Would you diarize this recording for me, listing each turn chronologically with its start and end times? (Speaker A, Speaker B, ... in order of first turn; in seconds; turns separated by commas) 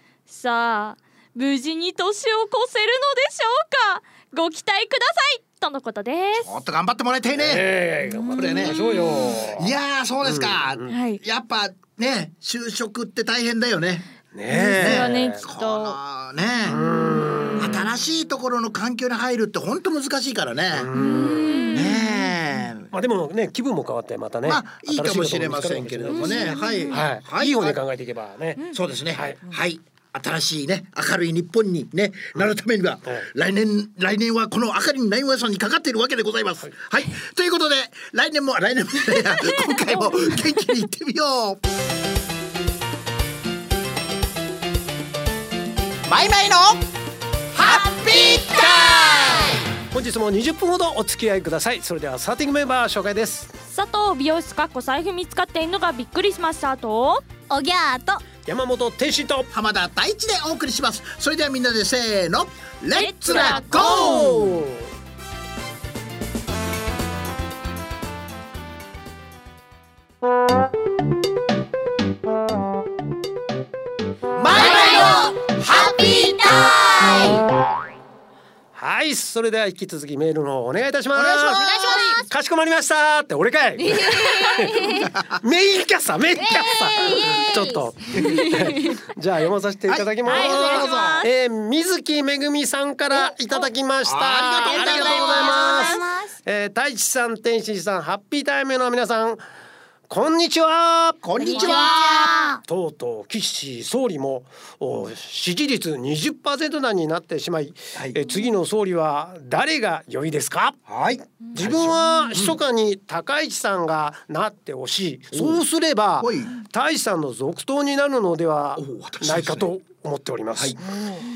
Speaker A: 0.3-6.5, Speaker B: 6.3-7.7, Speaker C: 7.3-9.7, Speaker B: 8.3-14.1, Speaker A: 8.4-8.9, Speaker C: 10.2-10.9, Speaker A: 10.9-11.2, Speaker C: 14.3-15.4, Speaker A: 14.5-16.0, Speaker B: 14.6-16.8, Speaker C: 16.7-17.8, Speaker B: 17.6-20.9, Speaker C: 20.7-21.7, Speaker D: 20.9-22.1, Speaker A: 21.0-21.9, Speaker B: 21.7-22.9, Speaker C: 22.9-29.4, Speaker B: 24.4-27.8, Speaker D: 26.1-27.0, Speaker B: 28.7-41.6, Speaker B: 46.1-46.8, Speaker B: 47.5-49.6, Speaker D: 47.6-49.5, Speaker C: 49.9-53.5, Speaker A: 53.7-57.2, Speaker D: 57.5-58.2, Speaker C: 58.5-59.5, Speaker B: 59.5-64.6, Speaker A: 62.9-64.3, Speaker D: 63.3-63.9, Speaker C: 63.8-64.8, Speaker B: 74.3-77.2, Speaker D: 74.5-77.4, Speaker C: 78.7-99.4, Speaker B: 81.1-82.2, Speaker D: 81.5-82.3, Speaker D: 83.8-85.1, Speaker D: 86.3-88.9, Speaker B: 89.9-91.2, Speaker A: 90.2-91.3, Speaker D: 93.1-93.6, Speaker B: 94.0-95.7, Speaker D: 94.6-96.3, Speaker A: 95.2-96.0, Speaker C: 100.1-101.9, Speaker B: 101.2-102.6, Speaker D: 101.4-102.6, Speaker C: 102.7-110.8, Speaker B: 110.9-112.6, Speaker C: 111.5-120.9, Speaker B: 115.3-115.6, Speaker B: 116.2-116.5, Speaker B: 118.8-119.7, Speaker D: 120.8-121.3